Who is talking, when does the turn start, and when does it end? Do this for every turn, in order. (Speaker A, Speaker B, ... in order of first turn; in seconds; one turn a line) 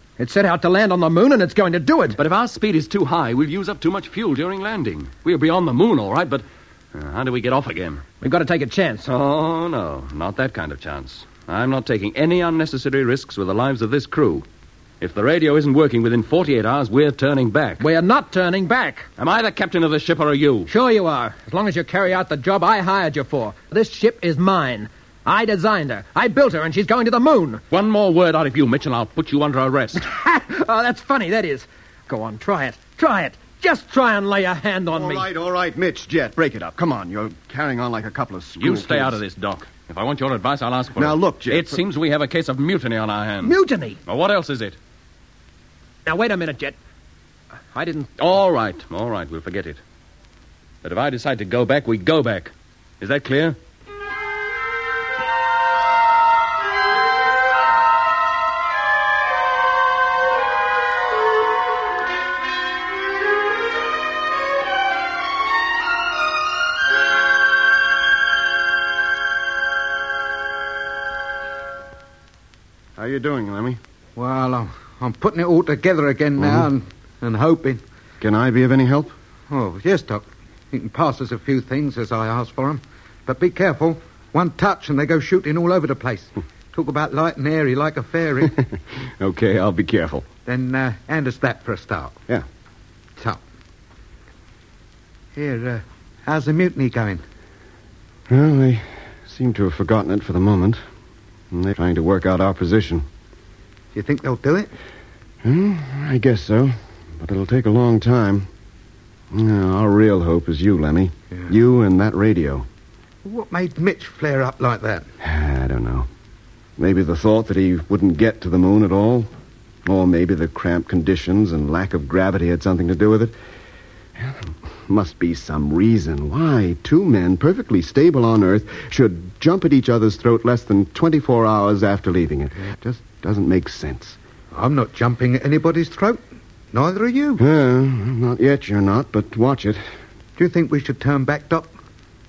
Speaker A: 0.2-2.2
Speaker B: 2.2-8.0
Speaker A: 8.2-9.1
Speaker B: 9.1-14.5
Speaker B: 15.0-17.8
Speaker A: 17.8-19.1
Speaker B: 19.2-20.7
Speaker A: 20.7-27.6
Speaker B: 27.7-30.0
Speaker A: 30.0-35.3
Speaker C: 34.9-39.2
Speaker B: 38.6-44.8
Speaker C: 41.0-41.8
Speaker A: 43.4-44.0
Speaker A: 46.1-46.8
Speaker A: 47.7-48.1
Speaker B: 48.2-49.8
Speaker B: 50.8-53.6
Speaker C: 73.0-73.8
Speaker D: 74.2-77.8
Speaker C: 76.4-76.7
Speaker C: 78.2-79.1
Speaker D: 79.5-88.5
Speaker C: 88.4-90.3
Speaker D: 90.5-92.2
Speaker D: 95.4-97.2
Speaker C: 98.3-100.8
Speaker C: 101.5-103.1
Speaker D: 103.9-104.7
Speaker C: 105.4-108.5
Speaker C: 109.3-112.7
Speaker D: 113.2-115.1
Speaker C: 115.2-116.1
Speaker C: 116.8-119.3
Speaker C: 119.8-123.3
Speaker C: 124.2-134.2
Speaker D: 134.5-136.2
Speaker D: 136.7-137.4
Speaker C: 137.4-139.9
Speaker D: 140.4-141.8